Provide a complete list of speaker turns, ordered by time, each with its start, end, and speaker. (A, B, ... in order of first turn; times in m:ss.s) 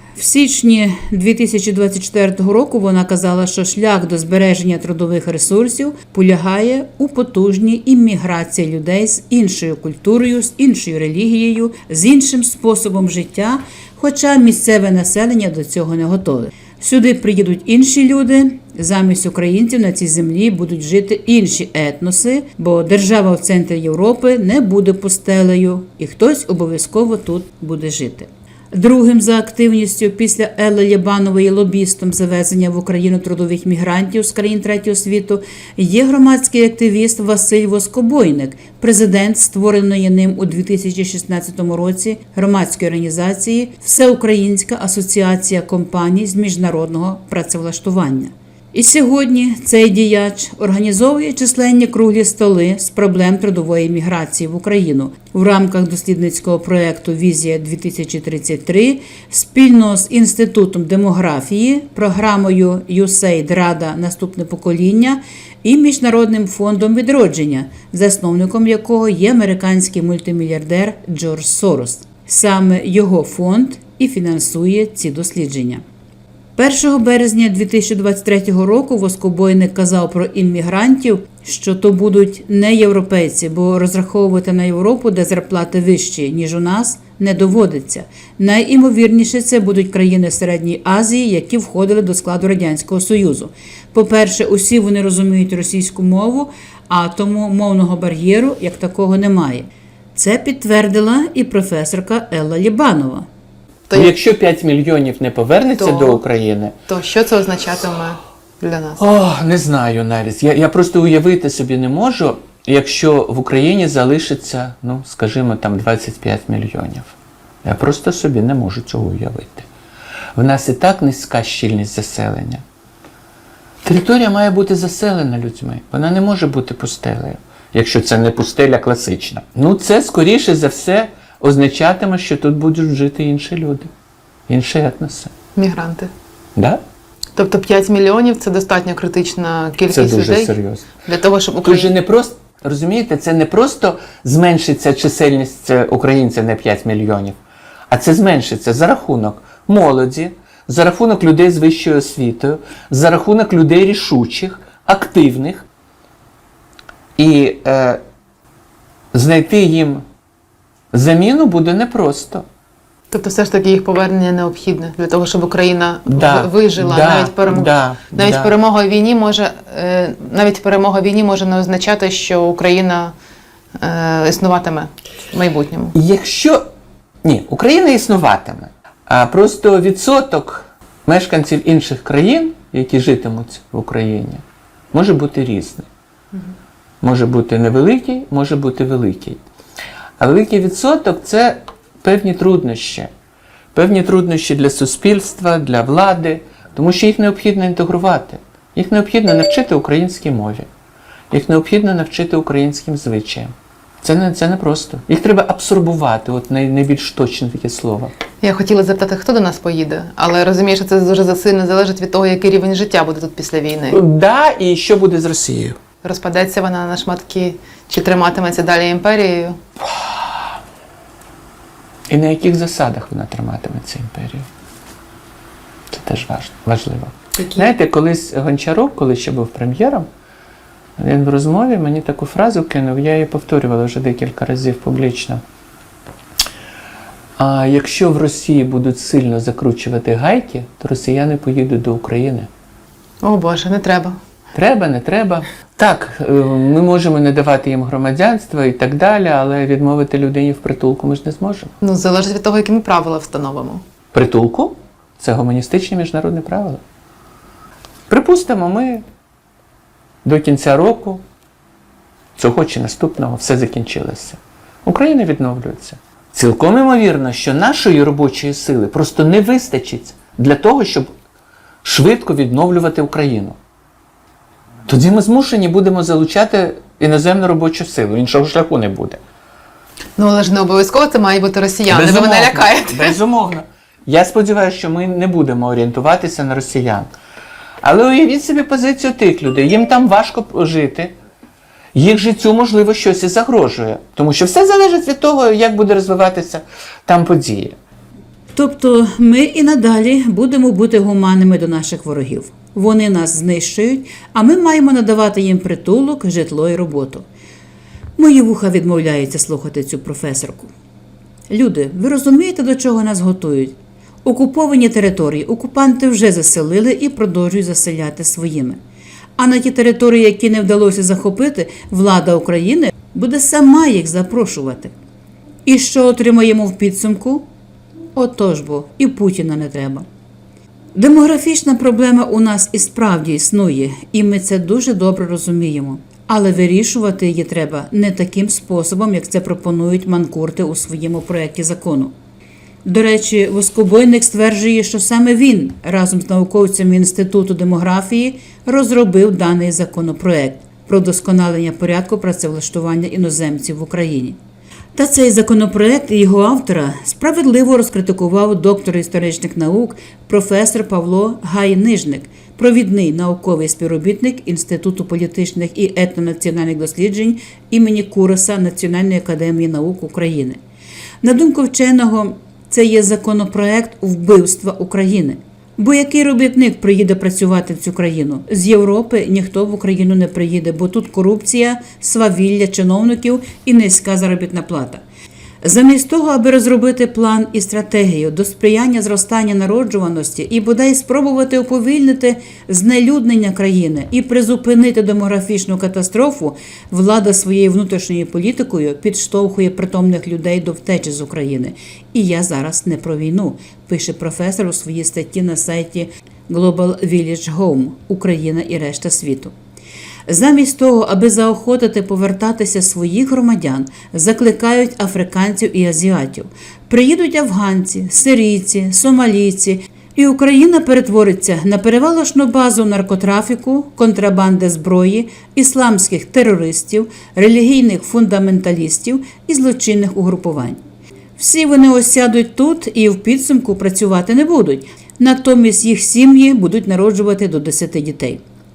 0:00.2-1:15.8 A
1:16.6-1:43.3 A
1:43.9-1:44.2 B
1:43.9-1:46.8 C
1:45.8-1:46.2 B
1:46.9-1:49.0 B
1:49.0-1:59.7 C
2:00.4-2:02.6 C
2:03.8-2:13.9 C
2:14.5-2:15.3 C
2:15.6-2:16.1 B
2:16.6-2:16.8 C
2:17.4-2:21.9 B
2:19.9-2:20.9 C
2:21.6-2:27.4 C
2:27.9-2:35.7 C
2:37.2-2:38.0 C
2:39.1-2:40.0 C
2:40.9-2:42.5 C
2:43.1-2:53.1 B
2:46.1-2:48.5 C
2:53.8-2:56.0 B
2:55.9-2:56.6 C
2:57.2-3:05.9 C
3:07.0-3:09.4 C
3:10.2-3:13.1 C
3:13.7-3:20.7 C
3:21.3-3:28.1 C
3:28.4-3:34.0 B
3:33.9-3:35.8 C
3:36.0-3:39.6 B
3:39.8-3:40.4 C
3:42.1-3:44.5 C
3:45.9-3:50.1 C
3:47.4-3:47.7 B
3:51.0-3:55.4 C
3:57.4-4:02.5 C
4:03.2-4:04.2 B
4:04.5-4:11.7 C
4:11.8-4:13.8 B
4:14.1-4:16.8 C
4:18.1-4:19.0 C
4:20.2-4:21.2 C
4:22.4-4:31.1 C
4:31.8-4:33.6 C
4:34.9-4:39.2 C
4:40.2-4:43.2 B
4:41.9-4:47.1 C
4:47.8-4:51.1 C
4:51.9-4:57.8 C
4:58.6-5:07.2 A
5:08.2-5:10.7 A
5:11.5-5:18.8 A
5:19.4-5:24.9 A
5:25.7-5:27.5 A
5:28.2-5:30.1 A
5:31.0-5:42.1 A
5:42.8-5:54.4 A
5:55.0-6:10.6 A
6:11.2-6:25.0 A
6:25.6-6:49.5 A
6:50.3-7:10.8 A
7:11.4-7:18.4 A